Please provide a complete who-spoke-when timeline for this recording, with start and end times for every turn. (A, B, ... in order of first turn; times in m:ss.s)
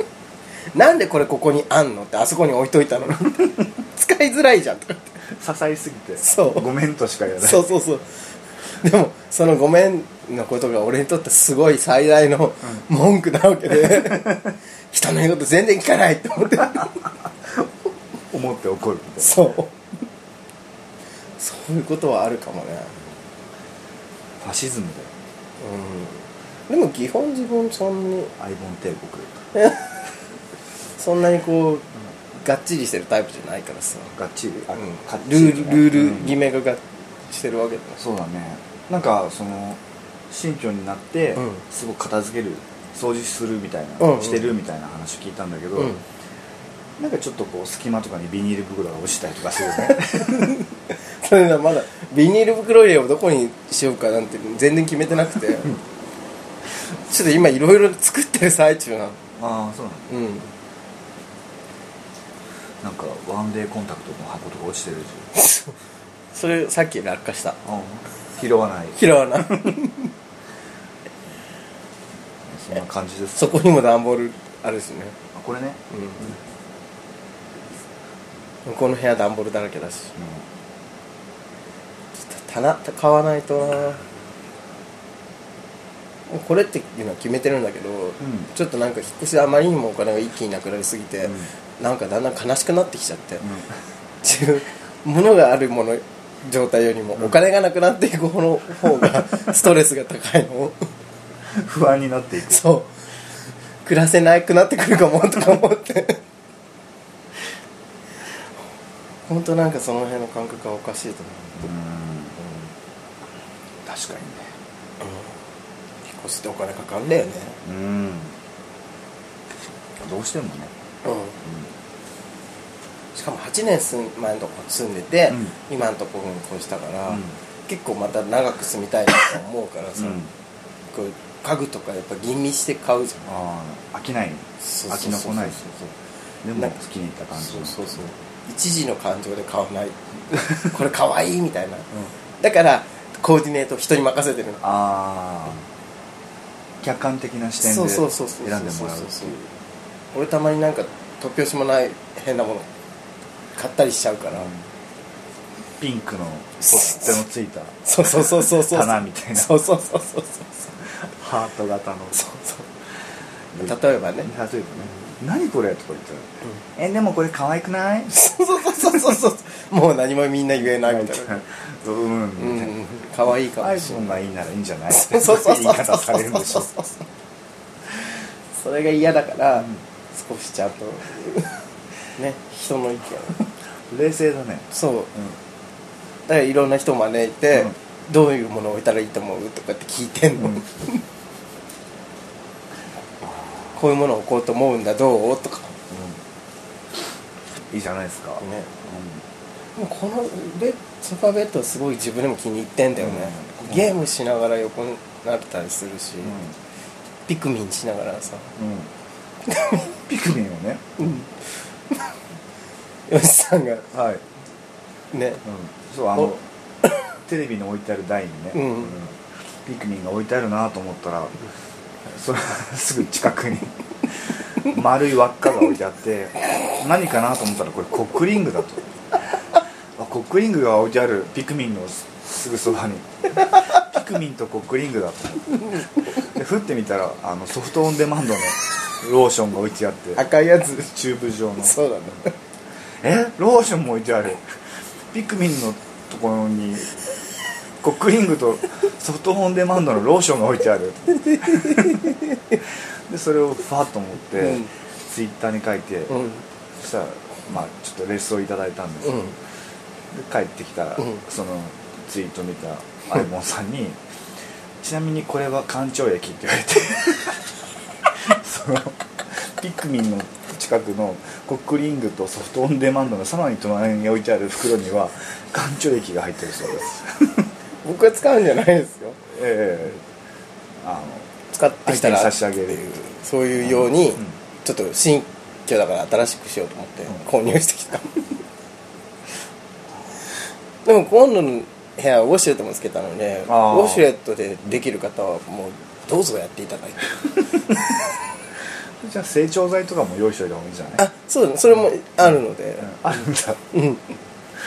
0:00.7-0:05.2 A
0:05.3-0:07.7 B
0:06.2-0:06.7 A
0:07.4-0:08.1 A
0:08.7-0:17.0 A
0:18.3-0:19.4 B
0:19.2-0:19.7 A
0:21.4-0:23.0 A
0:24.4-0:25.1 B
0:25.6-0:28.3 A
0:28.4-0:29.4 B
0:29.5-0:29.9 A
0:31.0-0:34.1 A
0:34.1-0:36.4 B
0:34.7-0:38.0 A
0:38.0-0:45.9 B
0:41.4-0:41.6 A
0:44.0-0:44.5 A
0:45.8-0:46.0 A
0:47.0-0:50.6 B
0:49.9-0:50.7 A
0:51.2-0:55.8 A
0:57.1-0:59.2 A
0:59.4-1:00.1 B
1:00.1-1:00.5 A
1:02.8-1:05.3 B
1:05.3-1:05.7 A
1:06.3-1:07.6 A
1:07.6-1:09.7 B
1:09.0-1:10.1 A
1:12.5-1:13.6 B
1:13.4-1:15.2 A
1:15.3-1:16.3 B
1:15.9-1:16.3 A
1:18.6-1:20.1 A
1:20.2-1:20.4 B
1:22.2-1:24.0 A
1:26.3-1:33.5 A
1:28.2-1:28.5 B
1:31.2-1:31.5 B
1:33.4-1:33.7 B
1:34.2-1:40.9 A
1:41.5-1:42.6 B
1:42.5-1:42.9 A
1:43.8-1:46.2 A
1:49.3-1:51.7 A
1:51.6-1:52.4 B
1:52.4-1:52.6 A
1:53.8-1:54.5 B
1:55.0-1:55.3 A
1:56.1-1:57.6 A
1:57.6-1:58.4 B
2:00.0-2:00.7 B
2:01.0-2:01.4 A
2:01.4-2:01.7 B
2:03.1-2:10.2 A
2:07.1-2:07.4 B
2:10.0-2:10.3 B
2:10.9-2:13.3 A
2:13.2-2:15.7 B
2:14.6-2:15.9 A
2:16.4-2:18.0 B
2:17.3-2:24.6 A
2:24.6-2:25.6 B
2:26.8-2:29.5 B
2:27.6-2:29.3 A
2:30.1-2:32.7 A
2:33.6-2:34.5 A
2:34.4-2:34.6 B
2:35.8-2:39.6 B
2:36.6-2:37.2 A
2:37.8-2:40.8 A
2:41.0-2:42.2 B
2:42.1-2:42.7 A
2:43.5-2:48.1 B
2:43.6-2:44.3 A
2:48.1-2:51.4 A
2:48.8-2:49.1 B
2:50.8-2:52.7 B
2:52.4-2:54.2 A
2:53.6-2:56.7 B
2:54.9-2:57.0 A
2:58.6-3:01.6 A
3:02.2-3:03.4 A
3:03.9-3:05.4 B
3:04.7-3:05.1 A
3:06.3-3:11.0 A
3:13.7-3:15.8 A
3:15.9-3:16.2 B
3:17.7-3:19.2 B
3:18.4-3:18.7 A
3:19.8-3:26.4 A
3:23.0-3:23.9 B
3:26.2-3:26.5 B
3:27.3-3:28.5 A
3:28.6-3:28.9 B
3:29.4-3:29.9 A
3:30.0-3:31.2 B
3:31.0-3:31.3 A
3:33.1-3:33.9 A
3:33.9-3:34.2 B
3:35.1-3:35.4 A
3:35.4-3:36.4 B
3:37.2-3:41.4 B
3:38.5-3:39.0 A
3:42.0-3:48.8 B
3:50.0-4:00.2 B
3:55.5-3:56.1 A
4:00.2-4:00.9 A
4:00.8-4:01.8 B
4:01.6-4:02.3 A
4:03.0-4:07.0 B
4:07.8-4:16.2 B
4:11.2-4:12.6 A
4:14.4-4:14.7 A
4:16.1-4:16.4 A
4:16.8-4:19.2 B
4:19.0-4:19.3 A
4:20.1-4:24.0 B
4:24.8-4:27.5 B
4:28.0-4:37.5 B
4:37.8-4:39.2 A
4:39.3-4:40.0 B
4:40.8-4:41.3 B
4:41.5-4:48.3 A
4:41.8-4:42.8 B
4:43.6-4:44.3 B
4:50.8-4:57.4 A
4:53.5-4:54.0 B
4:59.0-5:01.0 B
5:01.0-5:03.0 A
5:02.8-5:03.6 B
5:03.7-5:04.0 A